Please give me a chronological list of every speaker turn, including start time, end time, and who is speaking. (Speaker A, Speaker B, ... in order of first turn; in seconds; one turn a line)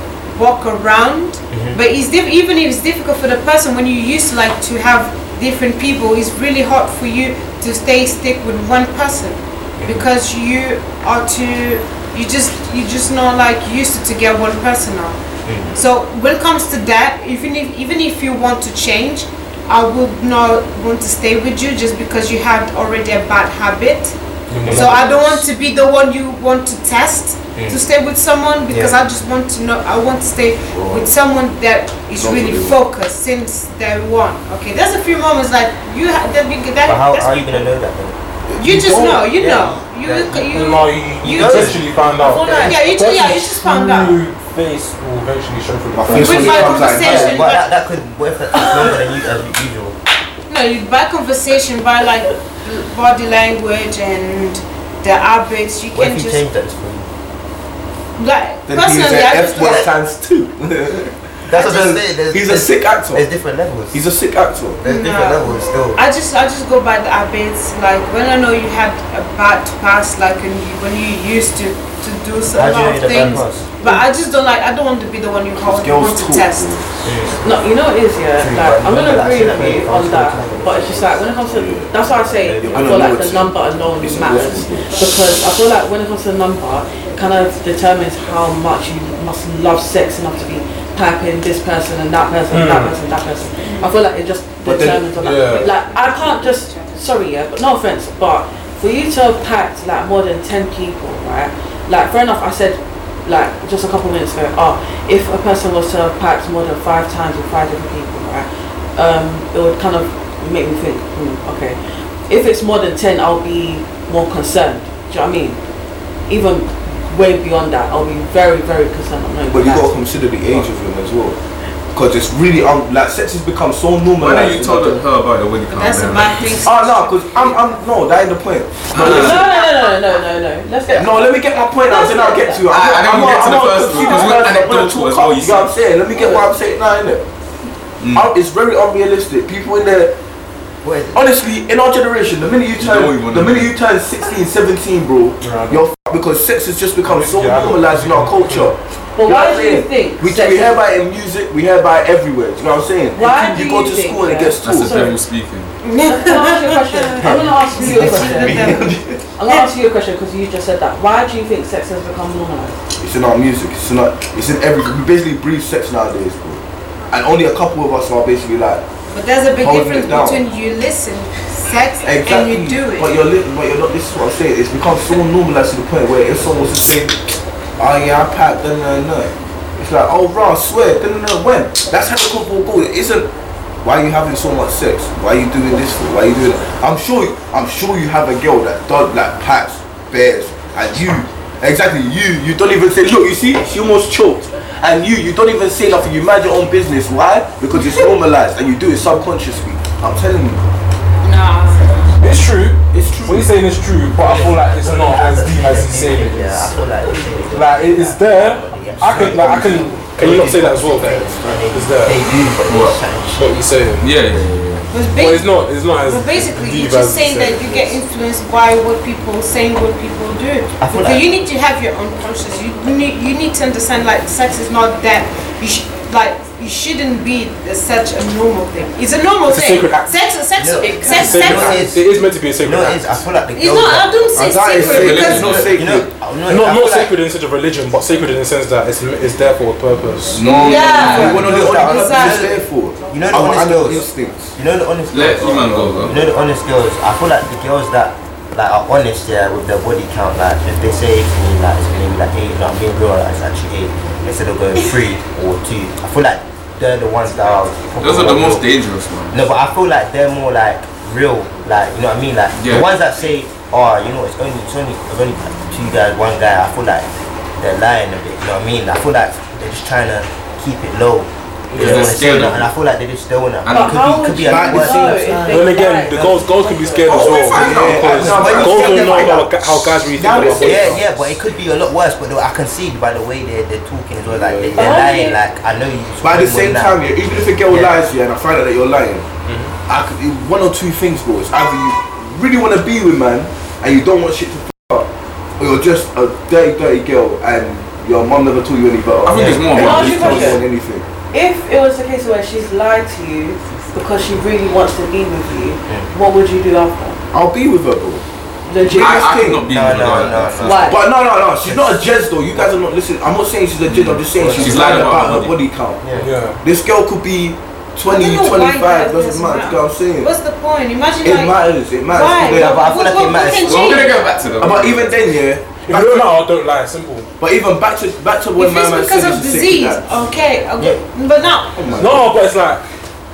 Speaker A: 0.3-15.2
Speaker B: 1.5-1.8
Speaker B: 9.8-10.1
Speaker B: 15.4-15.8
Speaker A: 15.7-37.7
Speaker C: 24.5-25.4
Speaker B: 27.6-27.8
Speaker B: 28.7-29.0
Speaker D: 30.7-31.1
Speaker D: 32.2-32.8
Speaker B: 36.8-38.2
Speaker D: 38.5-39.3
Speaker A: 38.6-44.2
Speaker B: 39.1-42.8
Speaker C: 40.5-46.9
Speaker E: 42.2-42.7
Speaker D: 45.9-47.5
Speaker A: 46.2-47.7
Speaker B: 46.9-50.0
Speaker A: 50.5-56.5
Speaker B: 55.9-57.1
Speaker A: 58.2-59.9
Speaker D: 58.7-63.2
Speaker B: 59.6-59.9
Speaker B: 61.5-64.0
Speaker D: 63.9-64.8
Speaker B: 64.8-66.0
Speaker A: 64.8-76.7
Speaker B: 72.5-73.7
Speaker C: 73.1-73.4
Speaker D: 75.5-77.0
Speaker B: 77.0-77.4
Speaker E: 77.4-111.8
Speaker B: 78.4-81.2
Speaker D: 81.4-85.0
Speaker B: 82.3-82.8
Speaker C: 92.5-92.9
Speaker D: 94.6-95.1
Speaker C: 95.1-95.7
Speaker A: 95.5-97.0
Speaker E: 112.3-115.6
Speaker E: 116.3-119.9
Speaker D: 119.5-121.4
Speaker D: 121.9-125.0
Speaker F: 124.2-126.7
Speaker A: 125.7-127.8
Speaker D: 126.6-129.5
Speaker F: 128.9-129.5
Speaker E: 128.9-134.4
Speaker D: 130.9-137.2
Speaker F: 132.7-135.7
Speaker F: 138.0-138.3
Speaker D: 138.1-140.2
Speaker B: 140.8-141.2
Speaker D: 141.1-155.1
Speaker F: 142.8-143.7
Speaker C: 145.4-145.8
Speaker C: 147.0-148.7
Speaker E: 149.2-150.8
Speaker E: 153.1-155.2
Speaker F: 154.6-155.8
Speaker A: 155.8-159.7
Speaker E: 156.0-162.8
Speaker D: 157.2-159.2
Speaker B: 157.8-158.8
Speaker D: 163.0-168.8
Speaker A: 169.1-173.3
Speaker D: 169.6-170.4
Speaker D: 172.0-177.2
Speaker D: 177.8-183.3
Speaker D: 183.8-200.6
Speaker A: 201.2-202.2
Speaker C: 202.2-206.7
Speaker D: 202.9-203.5
Speaker B: 204.2-213.6
Speaker C: 207.5-212.3
Speaker F: 209.0-209.8
Speaker F: 212.5-213.0
Speaker C: 213.3-214.2
Speaker F: 214.0-214.9
Speaker A: 214.9-231.8
Speaker C: 215.1-218.0
Speaker B: 220.8-221.3
Speaker C: 229.5-230.2
Speaker B: 230.6-232.0
Speaker E: 230.8-231.3
Speaker C: 230.9-233.2
Speaker B: 232.6-234.2
Speaker A: 233.5-235.6
Speaker D: 234.3-236.1
Speaker F: 234.8-235.7
Speaker B: 235.2-237.1
Speaker C: 236.4-240.4
Speaker F: 240.3-241.5
Speaker D: 240.4-244.6
Speaker A: 240.6-242.5
Speaker B: 240.8-258.7
Speaker F: 245.1-246.2
Speaker F: 258.0-259.4
Speaker B: 259.3-275.5
Speaker F: 262.6-262.9
Speaker C: 271.7-272.1
Speaker F: 271.7-272.7
Speaker F: 273.6-274.0
Speaker E: 273.7-277.9
Speaker D: 274.4-275.6
Speaker C: 275.5-281.1
Speaker B: 276.1-276.4
Speaker D: 277.1-281.0
Speaker B: 278.1-279.5
Speaker B: 280.6-287.0
Speaker C: 284.4-284.8
Speaker E: 284.8-285.4
Speaker D: 286.2-289.3
Speaker B: 287.7-287.9
Speaker C: 289.4-289.7
Speaker D: 289.9-301.0
Speaker F: 299.2-300.6
Speaker E: 299.7-300.6
Speaker E: 301.3-307.2
Speaker D: 307.3-308.2
Speaker E: 308.6-309.3
Speaker D: 308.8-309.7
Speaker F: 308.9-310.8
Speaker B: 309.7-311.0
Speaker E: 310.6-311.0
Speaker D: 310.8-316.1
Speaker B: 311.6-312.0
Speaker F: 313.9-315.6
Speaker B: 314.3-315.2
Speaker B: 316.0-316.3
Speaker C: 316.1-316.6
Speaker D: 316.6-320.3
Speaker A: 318.1-324.3
Speaker D: 321.2-322.9
Speaker B: 322.4-324.1
Speaker F: 323.6-325.3
Speaker D: 324.5-326.4
Speaker C: 325.8-327.3
Speaker D: 327.4-330.1
Speaker A: 328.6-331.9
Speaker D: 331.7-332.3
Speaker C: 331.9-332.8